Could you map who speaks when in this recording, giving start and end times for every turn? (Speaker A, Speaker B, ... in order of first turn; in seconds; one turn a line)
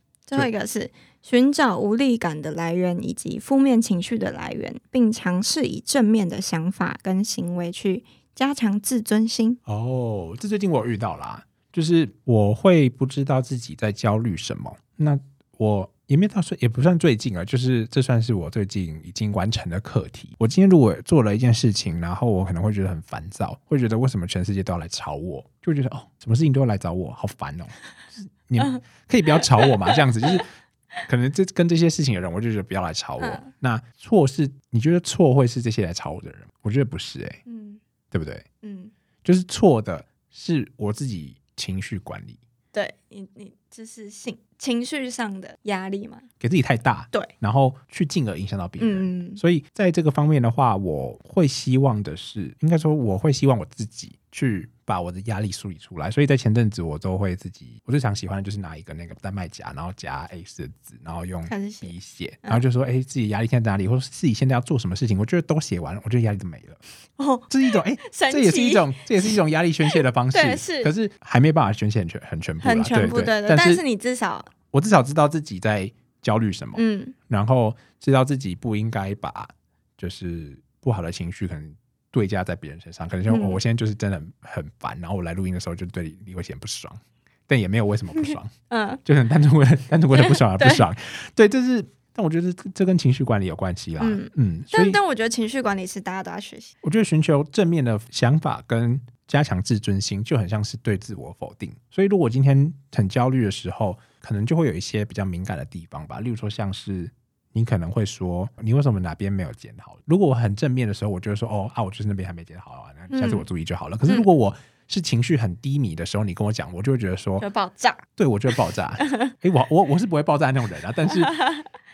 Speaker A: 0.3-9.6
Speaker B: 9.7-30.5
Speaker A: 28.6-30.4
Speaker B: 31.1-37.4
Speaker A: 33.2-33.5
Speaker A: 37.5-37.8
Speaker B: 38.1-38.5
Speaker A: 38.6-38.9
Speaker B: 39.2-42.4
Speaker A: 42.7-46.2
Speaker B: 46.4-66.8
Speaker A: 48.8-49.4
Speaker A: 61.5-62.6
Speaker A: 67.2-69.4
Speaker B: 67.5-73.8
Speaker A: 69.9-70.9
Speaker A: 72.6-74.5
Speaker B: 74.7-88.5
Speaker A: 76.8-77.2
Speaker A: 83.3-83.6
Speaker A: 88.2-89.0
Speaker B: 89.0-95.0
Speaker A: 90.1-90.9
Speaker A: 94.0-96.7
Speaker B: 96.8-117.5
Speaker A: 113.1-113.5
Speaker A: 117.4-118.0
Speaker B: 118.2-121.4
Speaker A: 121.1-121.7